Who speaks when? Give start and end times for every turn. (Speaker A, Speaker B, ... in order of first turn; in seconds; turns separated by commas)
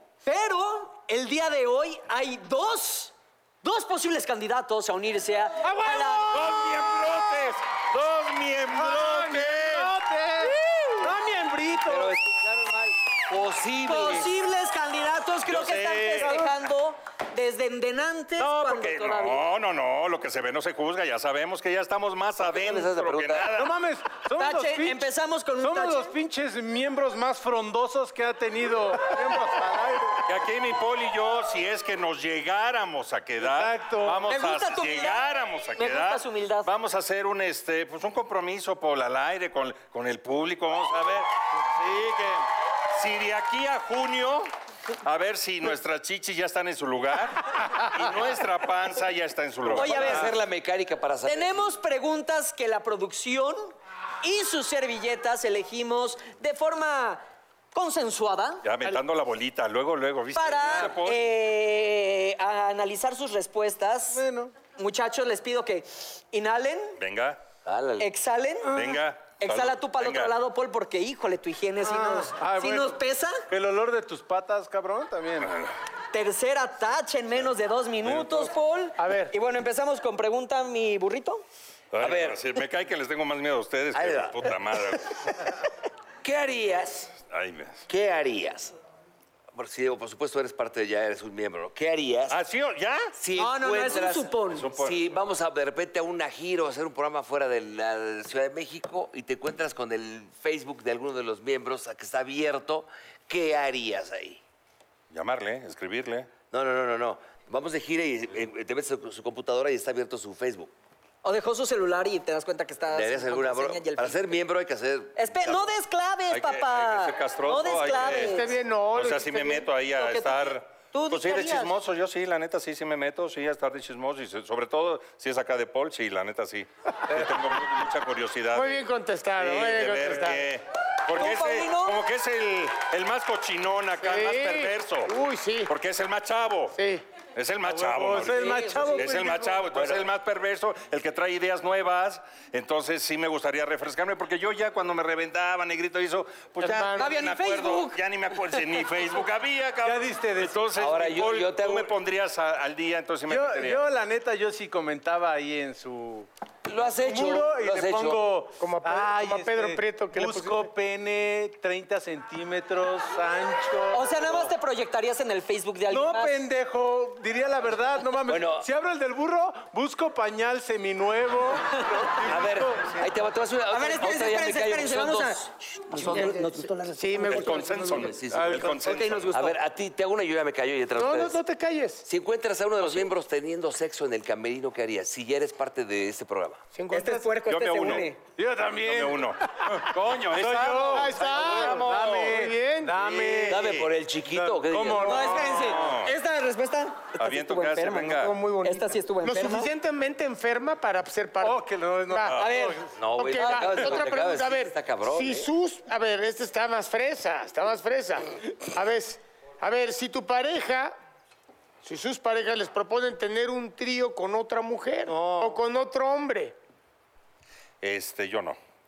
Speaker A: 0.2-6.4, Speaker B: 5.6-6.7, Speaker C: 6.3-9.9, Speaker B: 8.7-12.2, Speaker A: 10.4-11.1, Speaker D: 11.8-14.3, Speaker A: 13.8-19.4, Speaker C: 15.5-16.5, Speaker C: 18.4-23.7, Speaker D: 22.4-23.6, Speaker B: 23.5-25.1, Speaker A: 24.4-26.1, Speaker B: 25.6-30.2, Speaker C: 30.2-44.5, Speaker B: 33.4-34.3, Speaker A: 34.3-36.7, Speaker C: 45.0-50.3, Speaker D: 49.7-51.7, Speaker A: 49.7-50.3, Speaker A: 51.2-58.6, Speaker C: 58.6-61.2, Speaker A: 60.3-67.0, Speaker B: 64.1-64.5, Speaker C: 67.0-67.4, Speaker D: 67.6-68.1, Speaker A: 68.0-68.8, Speaker C: 68.7-70.3, Speaker A: 69.4-73.4, Speaker B: 71.8-73.0, Speaker B: 73.5-75.5, Speaker C: 75.4-75.7, Speaker A: 76.1-81.4, Speaker C: 78.0-78.5, Speaker E: 79.0-79.3, Speaker C: 81.9-85.2, Speaker D: 82.0-82.4, Speaker D: 83.9-84.5, Speaker D: 86.2-87.2, Speaker C: 87.2-87.8, Speaker D: 87.9-88.7, Speaker D: 89.5-92.4, Speaker C: 92.3-93.1, Speaker D: 93.1-104.4, Speaker A: 93.3-94.7, Speaker C: 94.5-95.0, Speaker C: 105.1-106.3, Speaker D: 106.5-110.7, Speaker A: 111.2-114.2, Speaker D: 112.9-115.7, Speaker A: 115.2-118.5, Speaker C: 116.3-128.8, Speaker E: 117.9-119.7, Speaker A: 120.0-121.7, Speaker E: 128.5-130.4, Speaker C: 129.4-135.1, Speaker A: 131.1-132.0, Speaker E: 134.0-135.7, Speaker C: 135.7-136.8, Speaker E: 136.7-137.0, Speaker C: 137.3-153.8, Speaker B: 137.7-139.7, Speaker A: 138.3-139.0, Speaker D: 139.7-140.0, Speaker E: 146.6-147.2, Speaker A: 146.9-148.0, Speaker B: 149.8-150.6, Speaker D: 150.8-151.9, Speaker B: 153.3-164.5, Speaker D: 156.7-158.2, Speaker E: 158.6-160.7, Speaker A: 163.9-166.4, Speaker B: 165.9-173.1, Speaker D: 168.3-168.7, Speaker D: 172.2-177.0, Speaker A: 173.7-176.4, Speaker E: 176.0-178.1, Speaker C: 177.2-179.4, Speaker B: 177.2-177.6, Speaker D: 177.9-181.4, Speaker B: 178.3-178.9, Speaker A: 178.8-179.6, Speaker E: 181.0-182.1, Speaker D: 182.0-186.6, Speaker E: 186.7-187.3, Speaker A: 186.9-188.2, Speaker C: 187.4-188.1, Speaker B: 188.3-195.8, Speaker C: 188.8-192.4, Speaker E: 190.8-193.5, Speaker D: 193.4-195.3, Speaker A: 195.0-199.7, Speaker C: 195.4-196.1, Speaker C: 197.2-198.4, Speaker E: 198.1-202.4, Speaker B: 201.4-202.9, Speaker A: 202.3-203.8, Speaker D: 202.9-205.5, Speaker E: 203.2-210.9, Speaker E: 211.8-216.6, Speaker B: 215.1-215.6, Speaker C: 217.8-218.6